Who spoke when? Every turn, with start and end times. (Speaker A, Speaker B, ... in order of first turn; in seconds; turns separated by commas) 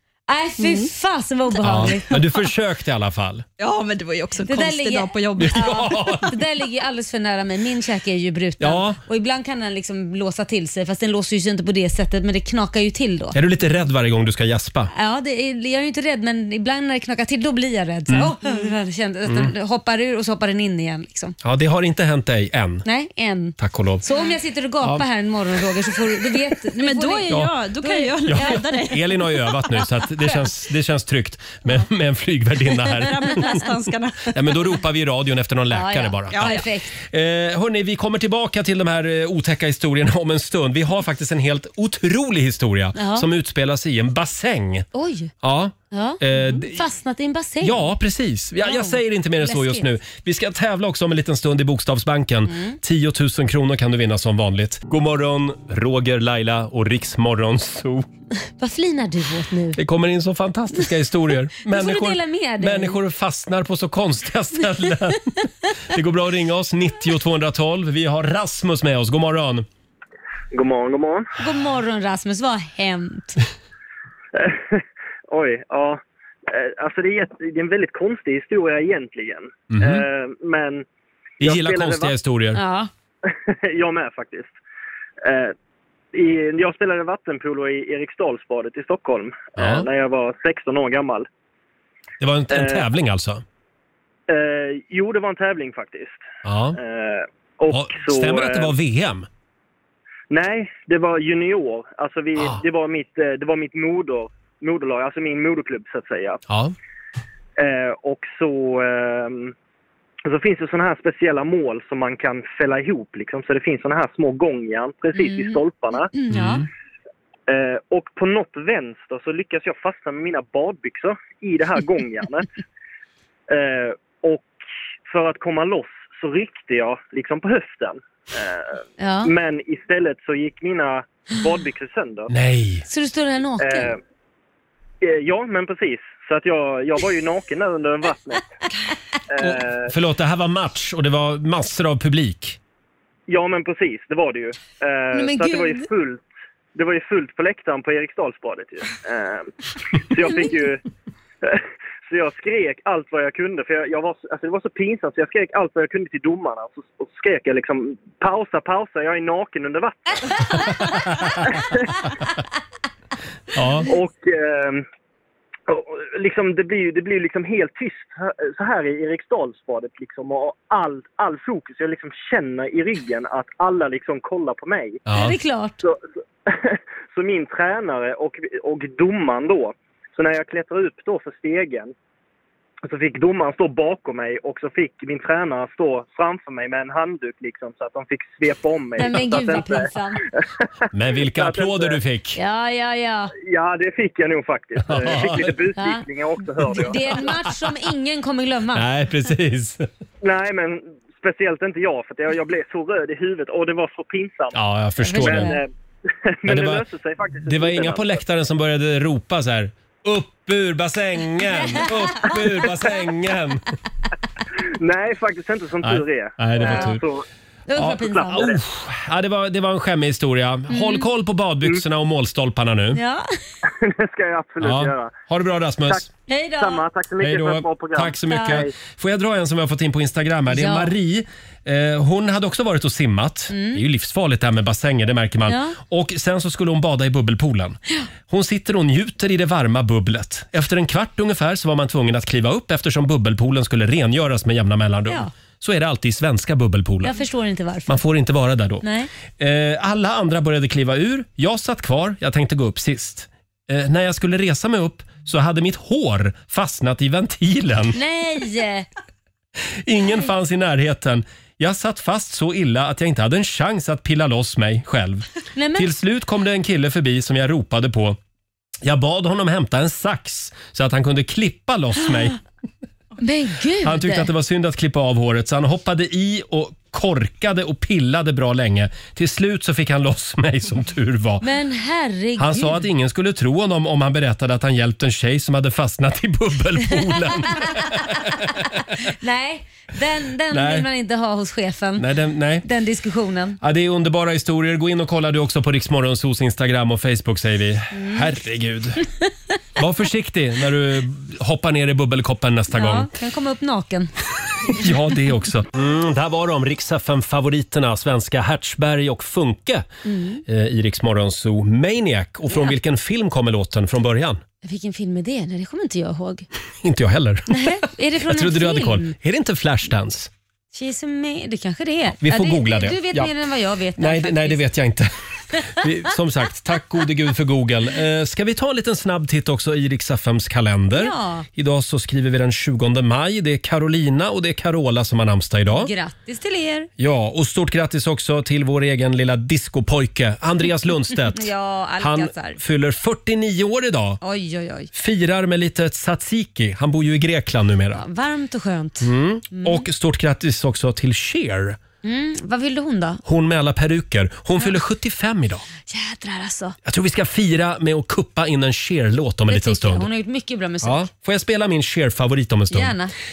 Speaker A: 0.3-2.1, Speaker B: 0.6-0.9, Speaker C: 1.6-3.5, Speaker B: 1.8-2.2, Speaker B: 3.6-5.8, Speaker A: 4.5-13.3, Speaker C: 5.4-6.3, Speaker C: 8.6-9.0, Speaker C: 13.3-14.9, Speaker A: 14.9-21.4, Speaker C: 21.4-22.9, Speaker A: 22.8-28.6, Speaker C: 23.6-24.0, Speaker B: 26.8-29.3, Speaker C: 28.3-33.7, Speaker B: 32.8-34.7, Speaker C: 34.3-36.6, Speaker A: 35.7-36.9, Speaker B: 36.3-36.6, Speaker C: 37.1-44.9, Speaker A: 42.9-43.2, Speaker A: 44.9-45.3, Speaker C: 45.4-46.8, Speaker A: 45.9-47.9, Speaker C: 47.6-58.1, Speaker A: 48.6-49.9, Speaker A: 52.5-52.8, Speaker A: 58.6-59.8, Speaker C: 59.8-69.7, Speaker A: 61.6-63.0, Speaker D: 70.5-71.3, Speaker A: 71.4-73.4, Speaker D: 74.3-80.8, Speaker C: 79.7-80.0, Speaker C: 81.4-82.6, Speaker D: 81.4-82.1, Speaker A: 82.5-82.9, Speaker D: 83.2-84.5, Speaker D: 85.2-85.5, Speaker D: 86.1-91.3, Speaker C: 89.5-89.9, Speaker C: 92.2-93.4, Speaker D: 92.5-92.8, Speaker D: 94.3-98.7, Speaker C: 96.4-96.8, Speaker C: 97.7-99.3, Speaker D: 100.3-106.4, Speaker C: 102.3-102.6, Speaker C: 106.5-106.7, Speaker D: 107.6-109.5, Speaker D: 110.3-116.1, Speaker A: 115.2-115.6, Speaker A: 116.1-116.6, Speaker C: 116.3-116.7, Speaker D: 117.5-122.5, Speaker D: 123.5-124.5, Speaker D: 125.0-132.3, Speaker A: 129.0-129.3, Speaker C: 132.3-132.8, Speaker A: 132.9-133.9, Speaker D: 133.6-134.0, Speaker D: 135.0-138.6, Speaker D: 139.3-139.9, Speaker C: 139.4-142.6, Speaker D: 143.3-150.8, Speaker A: 145.1-145.9, Speaker D: 151.4-160.6, Speaker C: 160.6-161.6, Speaker D: 161.4-162.1, Speaker C: 163.5-163.9, Speaker D: 163.8-164.8, Speaker D: 165.7-175.0, Speaker C: 175.1-175.3, Speaker A: 175.1-175.8, Speaker D: 175.8-181.9, Speaker D: 182.8-190.4, Speaker A: 189.0-190.2, Speaker C: 190.9-192.4, Speaker D: 191.3-192.0, Speaker A: 192.3-193.3, Speaker D: 193.4-197.0, Speaker C: 194.8-195.6, Speaker A: 195.8-196.0, Speaker C: 196.6-197.7, Speaker A: 196.7-198.9, Speaker C: 198.7-199.9, Speaker D: 200.2-204.6, Speaker C: 204.5-205.5, Speaker A: 205.0-205.6, Speaker D: 205.2-205.7, Speaker D: 206.3-208.2, Speaker C: 206.4-206.8, Speaker C: 207.4-213.6, Speaker A: 211.6-212.7, Speaker D: 214.8-217.2, Speaker C: 215.8-217.0, Speaker A: 216.6-216.9, Speaker A: 217.7-218.5, Speaker C: 217.8-223.0, Speaker D: 217.8-218.6, Speaker A: 220.7-221.1, Speaker A: 222.9-223.2, Speaker D: 223.6-225.2, Speaker C: 224.6-226.1, Speaker A: 226.3-226.8, Speaker D: 226.6-228.7, Speaker C: 227.2-247.1, Speaker A: 228.3-228.6, Speaker A: 230.5-230.9, Speaker A: 233.5-233.8, Speaker A: 235.4-235.8, Speaker A: 247.0-248.0, Speaker C: 247.9-248.8, Speaker A: 248.8-249.1, Speaker C: 249.4-258.0, Speaker A: 257.9-258.9, Speaker C: 259.8-268.2, Speaker A: 265.5-265.9, Speaker C: 268.8-272.4, Speaker A: 273.2-274.3, Speaker C: 273.8-281.4, Speaker A: 281.4-282.8, Speaker C: 282.4-288.9, Speaker A: 289.0-292.1, Speaker C: 290.5-290.9, Speaker C: 292.0-292.6, Speaker A: 292.6-293.6, Speaker C: 293.6-299.0, Speaker A: 297.9-298.3, Speaker C: 299.8-303.1, Speaker A: 302.7-304.1, Speaker C: 304.6-309.9, Speaker A: 310.0-310.4, Speaker C: 310.4-314.4, Speaker A: 314.6-316.4, Speaker C: 316.8-320.3, Speaker A: 317.5-319.1, Speaker A: 320.7-324.6, Speaker C: 322.2-323.3, Speaker C: 324.0-325.1, Speaker C: 325.6-335.9, Speaker A: 330.9-331.5, Speaker A: 335.7-336.9, Speaker C: 337.0-344.2, Speaker A: 341.3-342.6, Speaker A: 344.2-344.9, Speaker C: 344.9-348.0, Speaker A: 347.9-349.8, Speaker C: 349.0-351.8, Speaker A: 352.0-353.2, Speaker C: 353.2-355.6, Speaker A: 355.9-356.8, Speaker C: 356.8-360.1, Speaker A: 359.5-361.1, Speaker C: 360.8-363.0, Speaker A: 362.7-363.1